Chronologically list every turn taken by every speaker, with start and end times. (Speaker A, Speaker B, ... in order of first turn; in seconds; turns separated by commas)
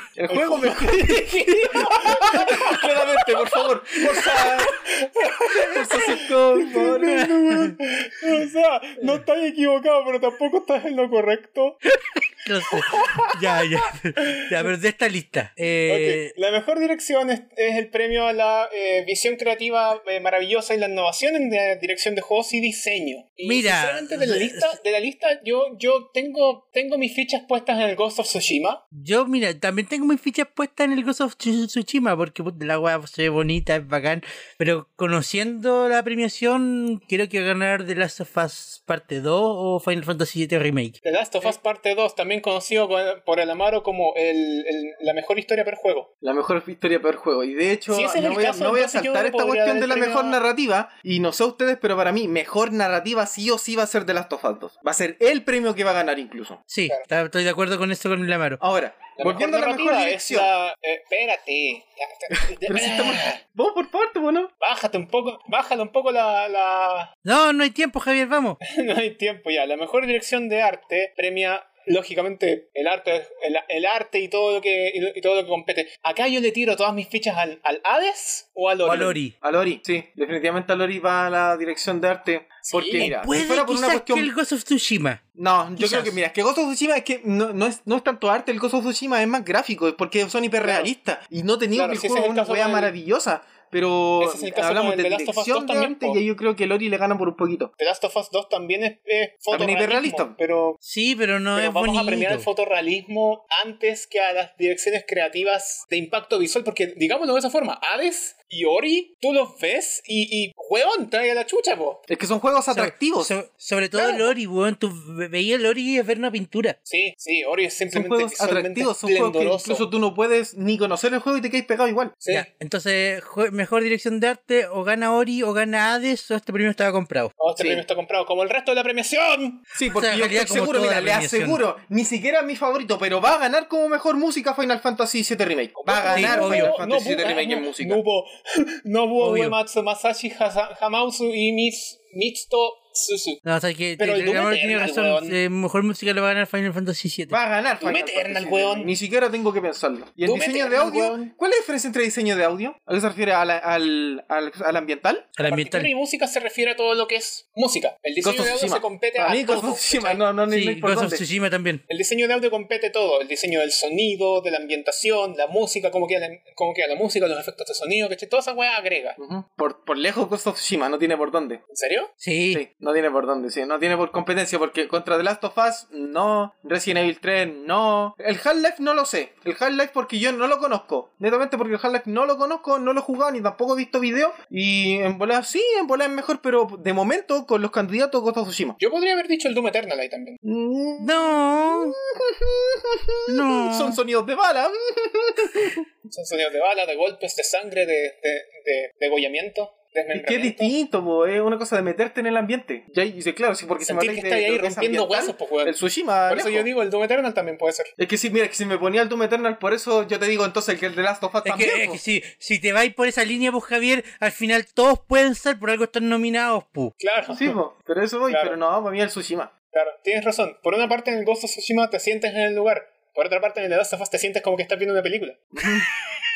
Speaker A: 0.2-4.7, Speaker B: 0.3-3.0, Speaker B: 4.0-11.8, Speaker A: 5.5-7.3, Speaker C: 6.8-7.7, Speaker C: 12.1-16.3, Speaker B: 12.7-13.4, Speaker B: 15.9-28.8, Speaker C: 23.4-24.8, Speaker C: 28.9-41.0, Speaker B: 41.0-46.1, Speaker A: 46.2-56.6, Speaker B: 47.9-50.4, Speaker C: 56.7-58.6, Speaker A: 58.6-60.5, Speaker B: 59.1-63.4, Speaker A: 62.6-64.5, Speaker B: 64.6-67.1, Speaker C: 67.2-68.6, Speaker B: 68.6-79.2, Speaker C: 78.8-79.3, Speaker A: 78.9-84.3, Speaker B: 82.6-83.1, Speaker C: 83.0-85.2, Speaker A: 85.3-97.7, Speaker C: 85.8-86.2, Speaker B: 90.6-90.9, Speaker B: 91.7-92.9, Speaker B: 94.2-96.2, Speaker B: 97.8-100.8, Speaker A: 99.5-100.3, Speaker C: 100.8-102.5, Speaker B: 101.5-112.0, Speaker A: 112.1-113.3, Speaker C: 112.7-116.8, Speaker B: 114.0-114.3, Speaker B: 116.8-119.8, Speaker A: 117.9-122.2, Speaker B: 122.2-122.5, Speaker C: 122.3-127.3, Speaker B: 127.4-129.7, Speaker A: 127.6-127.8, Speaker A: 129.7-138.0, Speaker C: 129.8-131.6, Speaker B: 135.8-143.4, Speaker C: 136.1-136.7, Speaker C: 139.2-139.6, Speaker C: 143.4-147.4, Speaker B: 144.0-145.4, Speaker A: 147.3-155.3, Speaker B: 147.8-148.9, Speaker B: 150.2-151.3, Speaker C: 155.4-155.9, Speaker B: 155.4-160.2, Speaker A: 158.2-161.2, Speaker C: 160.5-161.8, Speaker B: 161.9-169.2, Speaker A: 169.2-171.6, Speaker B: 171.7-172.1, Speaker C: 172.2-172.6, Speaker A: 172.5-188.8, Speaker B: 188.8-190.4, Speaker A: 190.4-195.8, Speaker C: 191.0-191.9, Speaker C: 193.3-194.0, Speaker B: 196.1-200.7, Speaker A: 200.1-206.7, Speaker B: 203.8-205.7, Speaker B: 206.3-207.9, Speaker A: 208.0-212.0, Speaker C: 211.4-216.9, Speaker B: 217.0-217.6, Speaker A: 217.3-219.5, Speaker B: 218.3-218.6, Speaker B: 219.7-225.4, Speaker A: 225.6-225.9